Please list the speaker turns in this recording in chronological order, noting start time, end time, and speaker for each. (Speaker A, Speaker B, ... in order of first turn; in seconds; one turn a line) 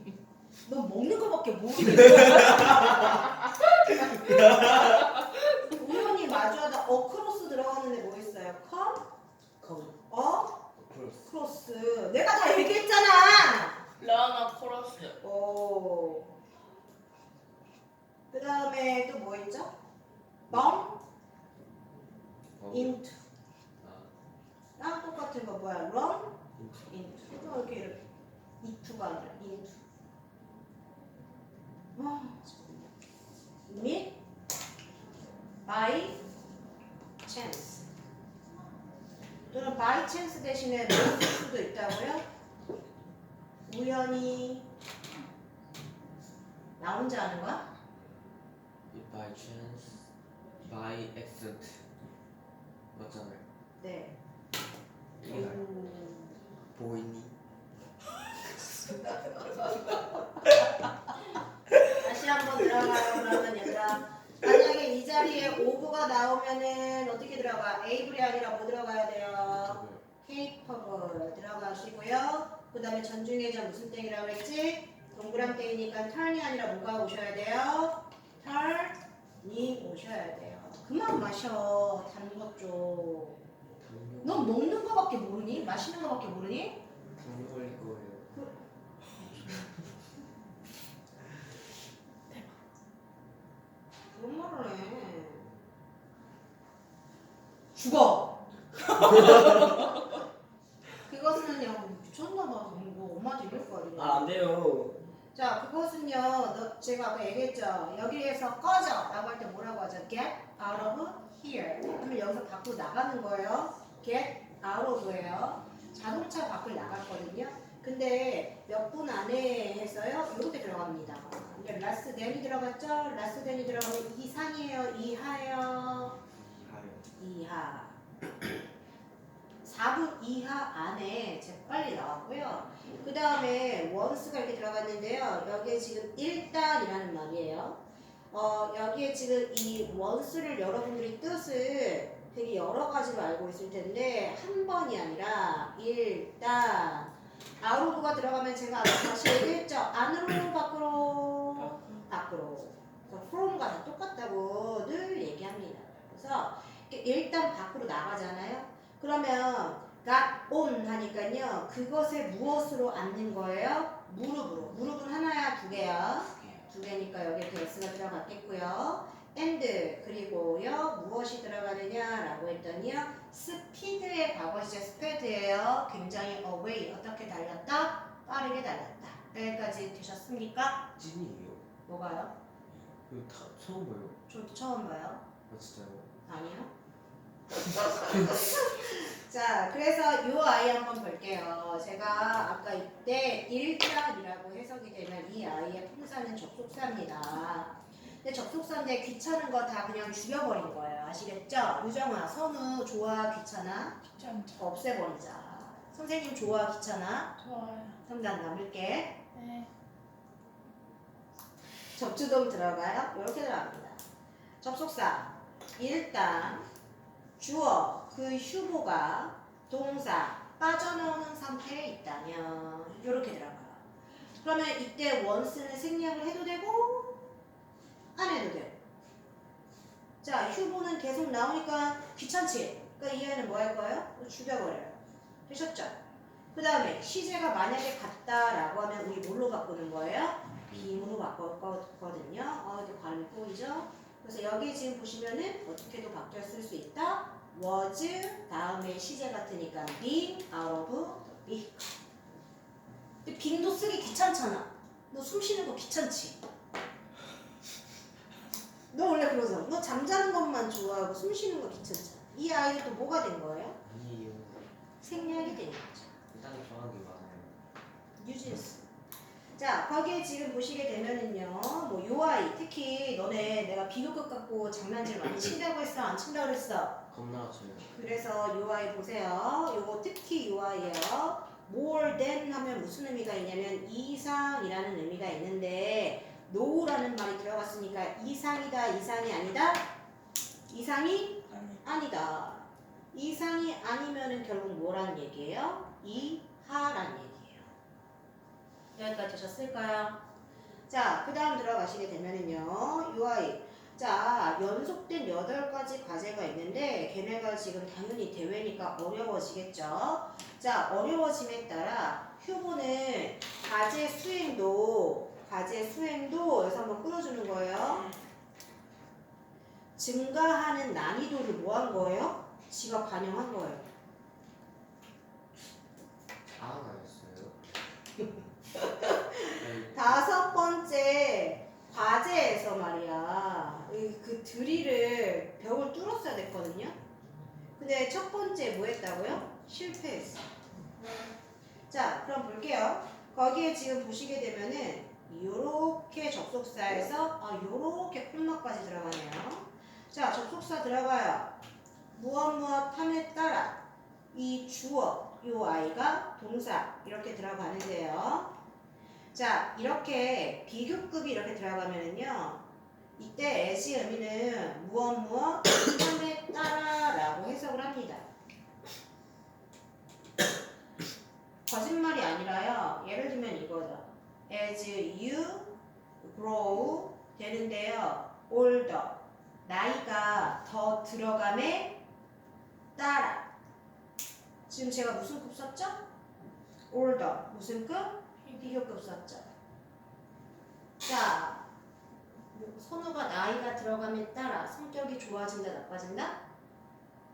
Speaker A: 0.7-3.2
Speaker B: 2.2-2.9
Speaker B: 4.0-5.0
Speaker A: 5.7-9.0
Speaker B: 9.6-9.9
Speaker A: 10.1-10.6
Speaker B: 10.7-11.3
Speaker A: 11.2-13.8
Speaker C: 14.0-15.2
Speaker A: 15.2-16.3
Speaker A: 18.3-19.7
Speaker B: 20.5-20.7
Speaker A: 20.5-21.0
Speaker B: 22.6-23.0
Speaker A: 22.7-23.2
Speaker B: 23.8-24.1
Speaker A: 24.8-28.0
Speaker B: 26.6-26.9
Speaker A: 28.6-29.8
Speaker A: 31.9-32.9
Speaker A: 33.7-34.1
Speaker A: 35.6-36.2
Speaker A: 37.2-37.8
Speaker A: 39.5-42.2
Speaker A: 43.7-44.7
Speaker A: 46.8-47.6
Speaker B: 48.9-50.1
Speaker B: 50.6-51.8
Speaker B: 52.9-53.4
Speaker A: 53.8-54.1
Speaker B: 55.2-55.6
Speaker A: 55.2-56.4
Speaker B: 56.7-57.3
Speaker A: 61.9-83.4
Speaker B: 69.5-70.0
Speaker B: 83.8-84.5
Speaker A: 84.2-86.8
Speaker B: 87.2-88.3
Speaker C: 92.3-92.6
Speaker A: 94.1-95.5
Speaker A: 97.8-98.4
Speaker A: 99.0-99.6
Speaker B: 99.2-99.4
Speaker A: 101.0-104.3
Speaker B: 103.9-105.0
Speaker A: 105.3-126.2
Speaker B: 126.3-127.1
Speaker A: 127.2-128.0
Speaker A: 129.6-137.8
Speaker A: 138.3-180.9
Speaker C: 151.6-152.0
Speaker B: 181.0-181.6
Speaker A: 181.9-182.3
Speaker B: 182.7-184.2
Speaker A: 184.3-185.2
Speaker B: 185.5-186.1
Speaker A: 186.2-186.7
Speaker A: 188.1-207.3
Speaker C: 204.1-204.6
Speaker C: 207.4-208.0
Speaker A: 208.0-209.2
Speaker C: 209.3-209.7
Speaker A: 211.9-214.0
Speaker A: 214.6-216.7
Speaker A: 217.4-223.8
Speaker A: 224.4-227.3
Speaker A: 228.2-228.8
Speaker A: 230.2-236.0
Speaker A: 236.5-251.9
Speaker A: 253.2-256.4
Speaker A: 258.9-263.8
Speaker B: 263.8-264.7
Speaker A: 265.0-266.1
Speaker B: 266.3-267.6
Speaker A: 268.2-268.9
Speaker A: 269.6-277.0
Speaker B: 277.1-277.9
Speaker A: 277.9-289.9
Speaker A: 290.7-297.7
Speaker C: 291.5-291.8
Speaker A: 298.9-300.2
Speaker A: 300.9-318.1
Speaker A: 319.9-323.9
Speaker B: 326.5-327.6
Speaker A: 329.2-336.9
Speaker B: 329.6-330.2
Speaker A: 337.8-340.5
Speaker A: 341.9-351.5
Speaker A: 352.1-358.5
Speaker A: 359.3-362.6
Speaker A: 363.2-368.3
Speaker A: 371.6-382.0
Speaker A: 382.9-383.5
Speaker A: 384.7-386.0
Speaker A: 386.9-389.5
Speaker A: 391.0-391.6
Speaker A: 392.5-396.4